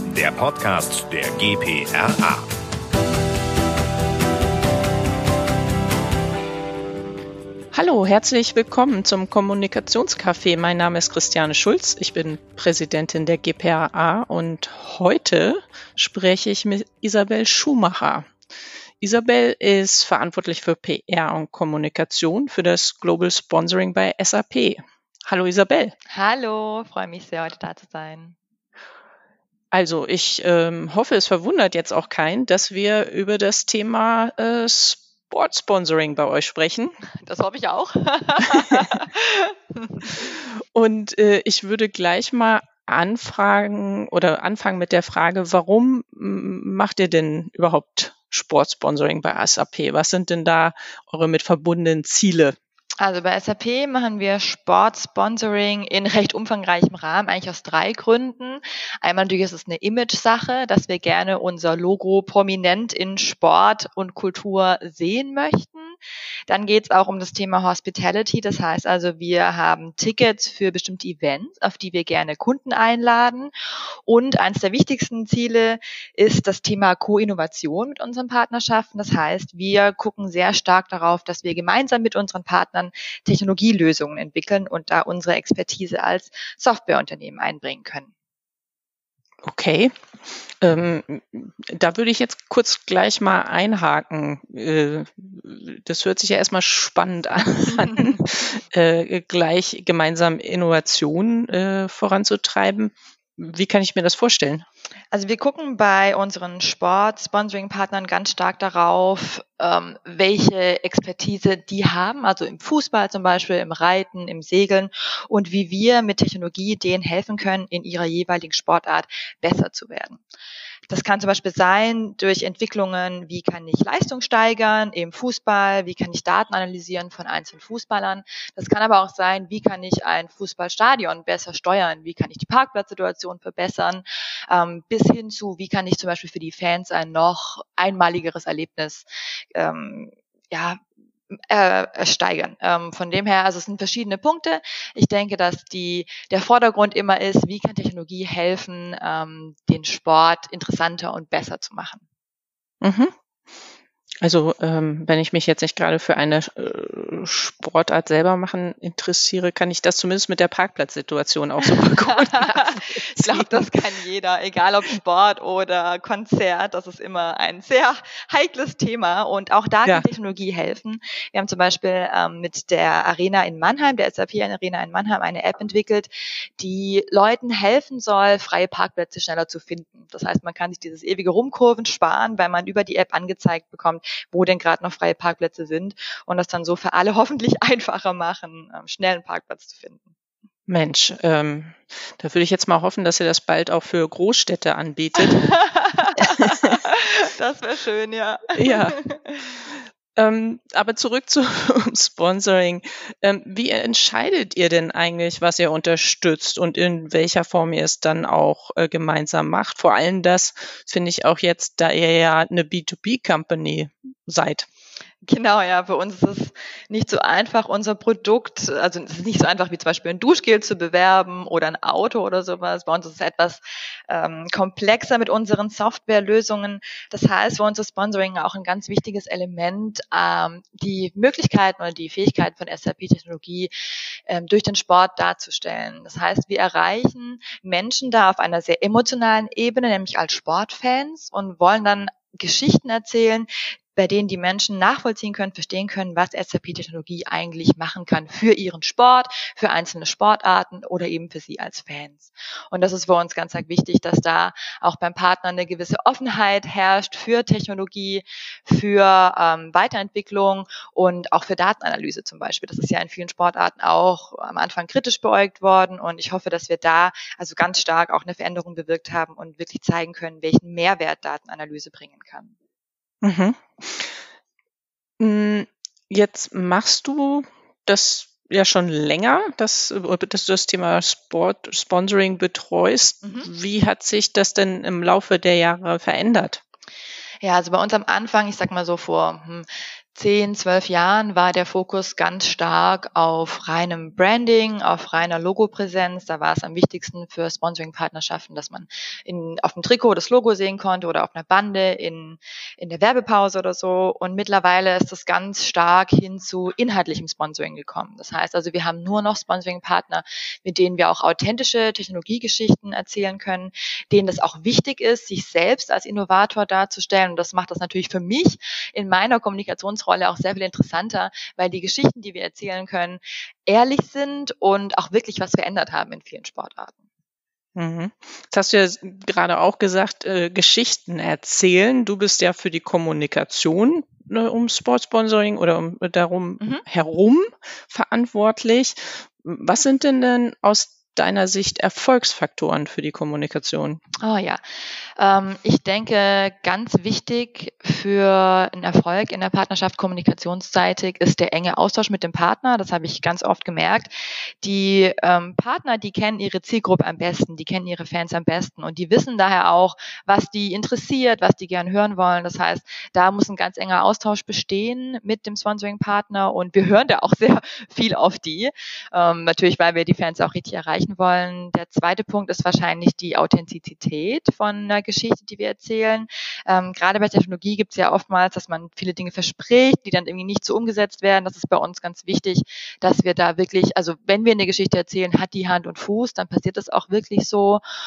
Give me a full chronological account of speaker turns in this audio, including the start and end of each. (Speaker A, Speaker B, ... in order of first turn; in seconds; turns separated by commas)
Speaker A: 0.4-2.4, Speaker B: 7.7-18.3, Speaker B: 19.0-25.9, Speaker C: 26.1-28.3, Speaker B: 29.7-36.9, Speaker C: 37.2-40.3, Speaker B: 40.7-52.5, Speaker C: 53.0-66.0, Speaker C: 66.5-73.5, Speaker C: 74.0-88.1, Speaker B: 89.4-104.6, Speaker C: 105.1-120.2, Speaker C: 120.9-140.8, Speaker C: 141.3-152.0, Speaker B: 152.8-153.1, Speaker B: 154.2-163.7, Speaker C: 161.6-190.1, Speaker B: 190.7-195.5, Speaker C: 195.2-199.4, Speaker B: 196.4-196.8, Speaker B: 198.5-199.0, Speaker B: 200.2-214.7, Speaker C: 215.2-233.7, Speaker C: 234.3-272.5, Speaker B: 273.2-274.1, Speaker B: 275.2-286.6, Speaker C: 283.2-283.5, Speaker C: 287.4-326.9, Speaker B: 327.8-344.0, Speaker C: 344.2-344.6, Speaker C: 345.2-387.8